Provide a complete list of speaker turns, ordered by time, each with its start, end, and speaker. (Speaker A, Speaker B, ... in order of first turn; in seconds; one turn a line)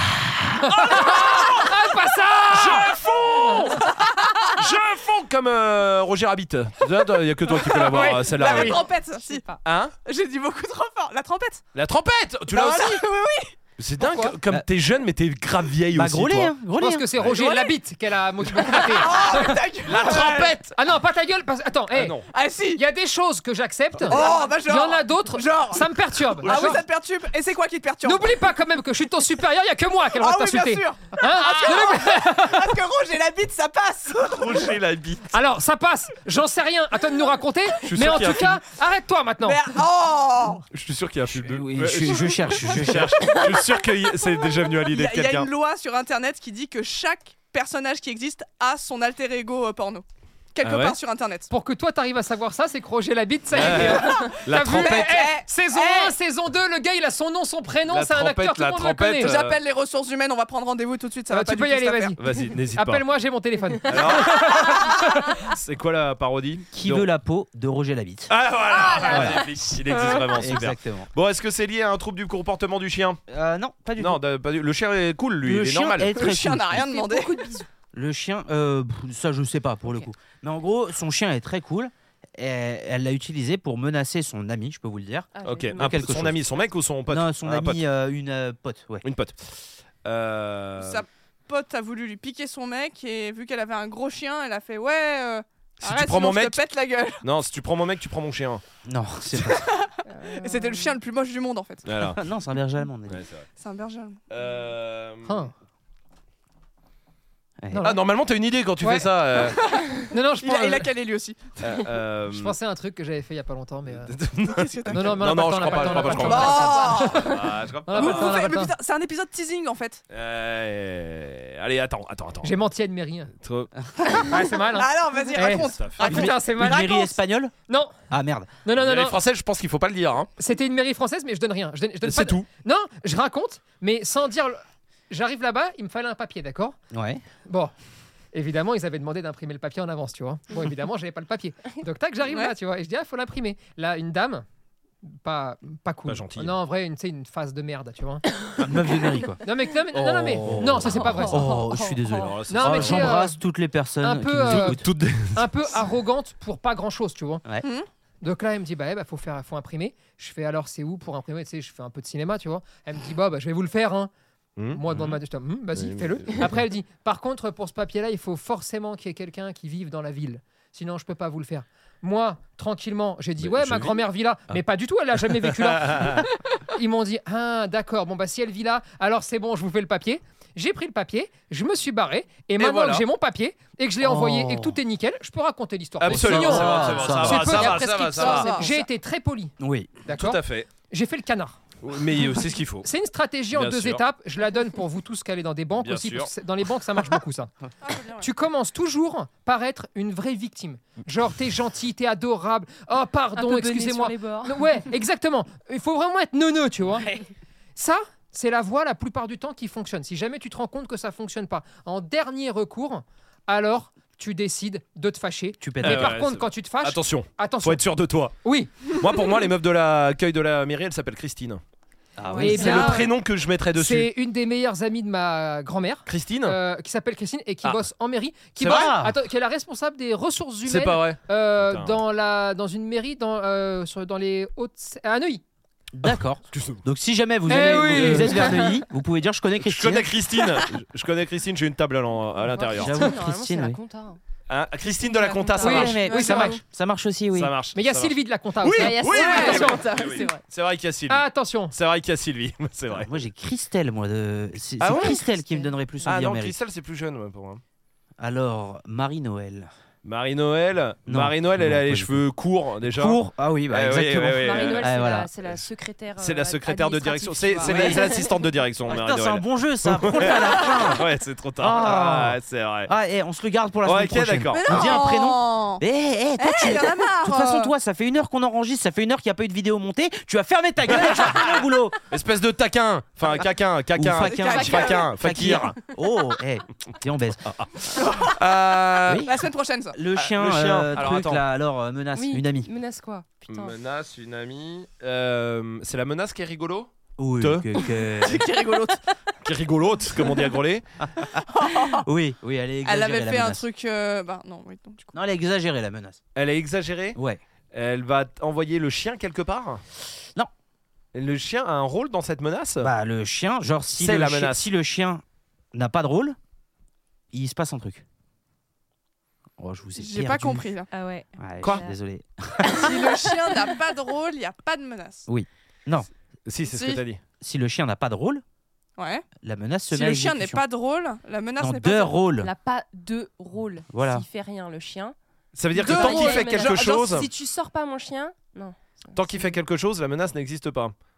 Speaker A: 0.6-3.8
Speaker B: 0.8-1.7
Speaker B: 2.5-4.0
Speaker C: 3.8-4.5
Speaker B: 4.5-8.8
Speaker C: 7.5-9.5
Speaker A: 7.9-8.8
Speaker B: 9.6-9.9
Speaker C: 10.1-11.6
Speaker B: 11.7-13.1
Speaker C: 12.5-13.6
Speaker B: 13.8-16.5
Speaker A: 14.0-14.4
Speaker D: 15.9-17.1
Speaker A: 16.8-22.2
Speaker C: 17.2-17.8
Speaker C: 18.5-20.5
Speaker B: 19.9-20.8
Speaker B: 21.9-22.3
Speaker C: 22.3-22.8
Speaker A: 22.8-26.8
Speaker C: 24.1-28.4
Speaker B: 26.4-26.8
Speaker A: 28.0-32.8
Speaker C: 30.1-34.8
Speaker B: 34.1-35.3
Speaker A: 35.3-39.7
Speaker B: 37.9-38.6
Speaker C: 39.4-40.6
Speaker B: 40.7-45.5
Speaker D: 41.3-43.3
Speaker C: 42.3-43.7
Speaker C: 44.8-51.5
Speaker B: 50.6-51.0
Speaker A: 51.5-59.4
Speaker B: 53.5-55.3
Speaker C: 53.6-56.1
Speaker B: 57.9-59.6
Speaker C: 59.2-62.2
Speaker A: 61.3-65.4
Speaker B: 62.2-63.0
Speaker B: 63.9-64.8
Speaker B: 65.4-67.1
Speaker D: 66.7-68.3
Speaker B: 68.3-73.2
Speaker C: 68.8-69.3
Speaker D: 69.1-69.5
Speaker D: 70.3-71.1
Speaker D: 73.3-74.2
Speaker B: 74.0-76.2
Speaker D: 75.4-77.0
Speaker C: 76.1-77.6
Speaker E: 76.9-77.7
Speaker D: 77.9-86.4
Speaker E: 85.3-86.0
Speaker B: 85.4-87.8
Speaker D: 87.1-89.0
Speaker B: 89.0-91.0
Speaker C: 90.8-97.2
Speaker B: 95.8-96.6
Speaker B: 97.2-98.6
Speaker D: 98.8-99.7
Speaker C: 99.5-101.9
Speaker E: 100.1-101.0
Speaker B: 101.8-102.2
Speaker D: 102.0-103.2
Speaker B: 103.1-103.5
Speaker C: 103.6-104.2
Speaker B: 104.3-105.5
Speaker A: 105.2-105.5
Speaker D: 107.6-107.9
Speaker A: 107.7-108.0
Speaker B: 107.8-109.6
Speaker A: 108.8-109.1
Speaker C: 109.5-111.6
Speaker A: 110.0-110.9
Speaker B: 111.6-112.5
Speaker A: 112.3-114.2
Speaker B: 114.0-118.4
Speaker C: 114.5-120.0
Speaker A: 114.9-118.7
Speaker B: 120.1-122.5
Speaker A: 122.4-123.3
Speaker B: 123.4-123.7
Speaker C: 124.0-127.1
Speaker A: 124.1-127.1
Speaker B: 125.8-126.2
Speaker D: 126.1-127.5
Speaker A: 127.7-127.9
Speaker D: 128.1-128.5
Speaker A: 128.6-129.2
Speaker B: 128.8-130.3
Speaker A: 130.4-136.8
Speaker B: 132.0-132.5
Speaker D: 136.9-137.2
Speaker A: 137.5-137.7
Speaker A: 138.3-144.4
Speaker C: 142.3-142.5
Speaker A: 145.0-148.2
Speaker B: 146.1-146.6
Speaker D: 148.6-149.4
Speaker A: 149.4-151.5
Speaker D: 149.9-154.9
Speaker E: 150.9-152.2
Speaker B: 152.1-153.2
Speaker A: 152.5-153.4
Speaker A: 154.0-154.8
Speaker B: 154.5-155.5
Speaker A: 155.3-157.4
Speaker C: 157.6-157.9
Speaker A: 158.2-164.1
Speaker B: 164.6-165.2
Speaker A: 164.7-191.6
Speaker B: 165.8-166.4
Speaker B: 173.4-174.0
Speaker B: 175.3-176.2
Speaker B: 182.6-183.1
Speaker D: 184.0-184.8
Speaker B: 186.0-188.6
Speaker D: 186.1-187.8
Speaker C: 188.1-188.8
Speaker D: 189.6-189.9
Speaker B: 190.1-190.7
Speaker B: 191.8-192.9
Speaker A: 192.8-197.5
Speaker B: 193.5-194.0
Speaker B: 195.8-196.3
Speaker C: 197.8-198.3
Speaker A: 198.2-207.2
Speaker E: 203.3-204.8
Speaker A: 207.8-217.8
Speaker D: 215.6-216.2
Speaker B: 215.8-221.6
Speaker A: 218.4-218.8
Speaker D: 222.2-223.0
Speaker E: 222.3-223.1
Speaker A: 222.4-223.1
Speaker B: 222.5-224.1
Speaker A: 223.8-235.4
Speaker B: 226.1-226.6
Speaker B: 228.6-228.9
Speaker D: 228.6-229.2
Speaker B: 230.7-232.0
Speaker D: 235.9-240.2
Speaker B: 236.5-236.8
Speaker A: 237.5-238.6
Speaker E: 238.4-238.8
Speaker B: 239.6-243.2
Speaker E: 242.5-244.2
Speaker D: 242.8-243.8
Speaker B: 244.5-246.0
Speaker E: 245.0-246.4
Speaker A: 245.6-246.6
Speaker D: 245.6-247.5
Speaker C: 246.0-246.5
Speaker B: 247.3-253.1
Speaker A: 247.7-249.8
Speaker E: 248.7-250.4
Speaker C: 249.1-249.8
Speaker A: 251.1-251.7
Speaker D: 252.9-256.5
Speaker B: 254.8-255.2
Speaker E: 254.9-256.2
Speaker B: 256.1-257.6
Speaker D: 258.2-259.7
Speaker B: 260.0-264.9
Speaker D: 261.1-262.2
Speaker D: 262.9-265.3
Speaker E: 264.4-268.3
Speaker B: 266.2-272.9
Speaker D: 267.6-268.2
Speaker D: 268.9-271.1
Speaker D: 271.6-282.0
Speaker B: 273.8-275.1
Speaker C: 274.5-275.8
Speaker C: 276.4-277.7
Speaker B: 281.0-281.4
Speaker B: 282.1-285.8
Speaker D: 283.9-287.5
Speaker C: 284.2-285.1
Speaker E: 284.6-284.9
Speaker B: 287.5-289.3
Speaker C: 288.0-288.4
Speaker D: 289.1-289.4
Speaker C: 289.2-290.0
Speaker D: 289.9-292.7
Speaker B: 290.2-291.4
Speaker E: 292.1-293.8
Speaker B: 293.5-297.7
Speaker D: 297.2-298.5
Speaker C: 298.0-299.0
Speaker B: 299.4-300.9
Speaker C: 300.2-300.6
Speaker D: 301.0-303.6
Speaker C: 301.5-302.1
Speaker C: 302.9-305.1
Speaker D: 305.1-306.2
Speaker B: 306.4-307.2
Speaker D: 307.2-307.4
Speaker B: 307.7-309.8
Speaker B: 311.1-312.9
Speaker D: 312.8-316.4
Speaker B: 314.0-314.7
Speaker D: 317.3-318.0
Speaker D: 319.6-320.7
Speaker C: 320.0-320.9
Speaker E: 320.9-322.0
Speaker D: 321.4-323.1
Speaker C: 322.7-325.3
Speaker D: 325.3-326.1
Speaker B: 326.5-327.2
Speaker C: 326.7-327.0
Speaker D: 327.4-328.4
Speaker C: 329.0-329.3
Speaker D: 329.4-330.6
Speaker C: 329.9-332.2
Speaker D: 331.6-332.5
Speaker E: 332.4-335.1
Speaker D: 333.9-334.2
Speaker B: 335.6-337.3
Speaker E: 335.8-339.6
Speaker C: 335.8-337.3
Speaker B: 339.2-340.9